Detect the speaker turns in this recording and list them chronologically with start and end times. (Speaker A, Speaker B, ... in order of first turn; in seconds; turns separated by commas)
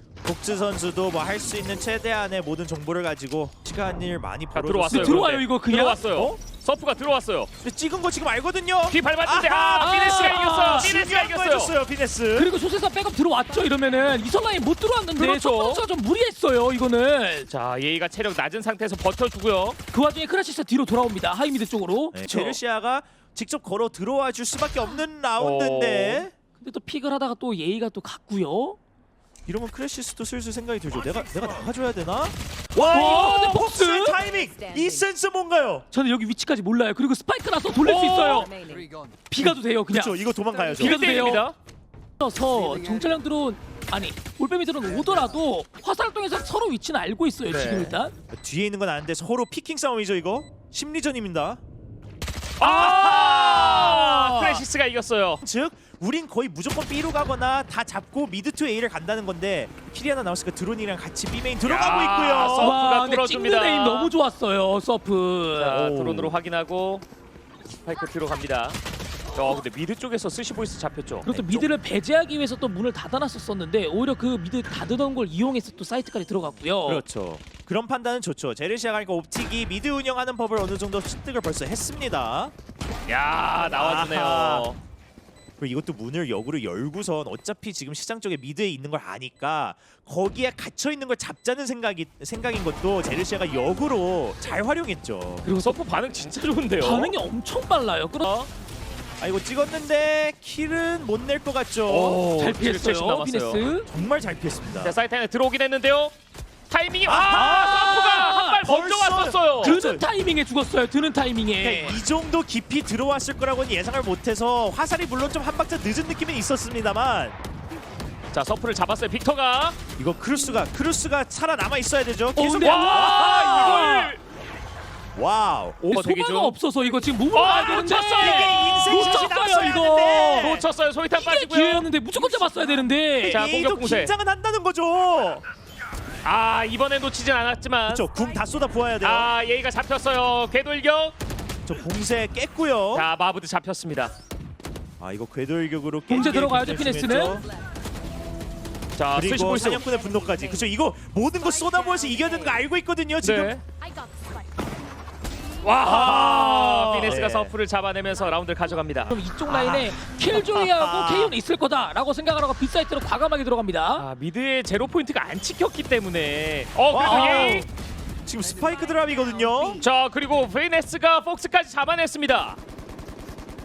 Speaker A: 0.2-5.2, Speaker B: 4.5-7.5, Speaker C: 4.9-6.3, Speaker A: 7.6-9.9, Speaker B: 8.9-11.7, Speaker C: 9.7-10.9, Speaker A: 10.7-12.5, Speaker C: 12.3-17.5, Speaker B: 15.2-15.8, Speaker B: 17.5-19.8, Speaker C: 19.9-22.6, Speaker A: 22.1-26.3, Speaker B: 25.4-26.3, Speaker C: 26.6-28.8, Speaker A: 29.5-35.9, Speaker C: 32.8-34.2, Speaker D: 34.2-35.0, Speaker C: 35.9-38.5, Speaker B: 37.8-38.5, Speaker D: 38.2-38.9, Speaker C: 39.3-41.5, Speaker A: 39.4-41.0, Speaker B: 40.7-41.5, Speaker C: 42.2-48.1, Speaker B: 47.5-48.0, Speaker A: 48.3-51.6, Speaker B: 52.6-55.4, Speaker C: 52.6-54.6, Speaker A: 52.6-54.0, Speaker A: 55.4-62.8, Speaker B: 61.6-64.1, Speaker C: 62.6-66.0, Speaker B: 65.5-67.0, Speaker A: 66.0-66.3, Speaker B: 67.8-68.8, Speaker B: 69.3-71.3, Speaker C: 71.2-77.0, Speaker A: 71.3-71.8, Speaker A: 76.8-82.5, Speaker B: 83.1-84.8, Speaker A: 83.6-84.7, Speaker A: 85.6-95.5, Speaker C: 95.4-95.8, Speaker B: 95.6-97.2, Speaker C: 96.8-98.5, Speaker B: 98.2-98.5, Speaker A: 99.2-102.2, Speaker B: 101.8-103.6, Speaker C: 102.3-103.9, Speaker A: 103.9-105.0, Speaker B: 104.8-106.1, Speaker B: 106.7-109.8, Speaker A: 107.0-107.5, Speaker C: 107.2-108.6, Speaker A: 108.6-110.0, Speaker C: 109.6-112.0, Speaker A: 111.6-117.4, Speaker B: 118.3-119.8, Speaker A: 120.0-123.9, Speaker C: 122.3-124.2, Speaker B: 122.6-124.2, Speaker A: 125.1-125.9, Speaker B: 125.8-126.5, Speaker C: 125.9-130.6, Speaker B: 127.3-129.1, Speaker A: 128.2-130.6, Speaker B: 130.4-131.9, Speaker C: 131.1-133.4, Speaker A: 133.2-135.4, Speaker B: 133.2-134.1, Speaker B: 136.2-138.1, Speaker A: 137.9-139.3, Speaker B: 139.0-141.1, Speaker A: 141.7-143.1, Speaker B: 142.9-144.1, Speaker A: 145.0-147.5, Speaker C: 146.1-147.4, Speaker B: 149.0-149.8, Speaker A: 149.1-153.5, Speaker D: 149.8-150.7, Speaker D: 151.7-152.6, Speaker B: 153.2-153.6, Speaker B: 155.6-159.1, Speaker A: 155.8-157.5, Speaker C: 159.1-164.1, Speaker A: 159.4-161.4, Speaker B: 163.9-167.7, Speaker A: 166.9-167.7, Speaker C: 167.0-167.7, Speaker A: 168.2-169.8, Speaker B: 169.8-172.6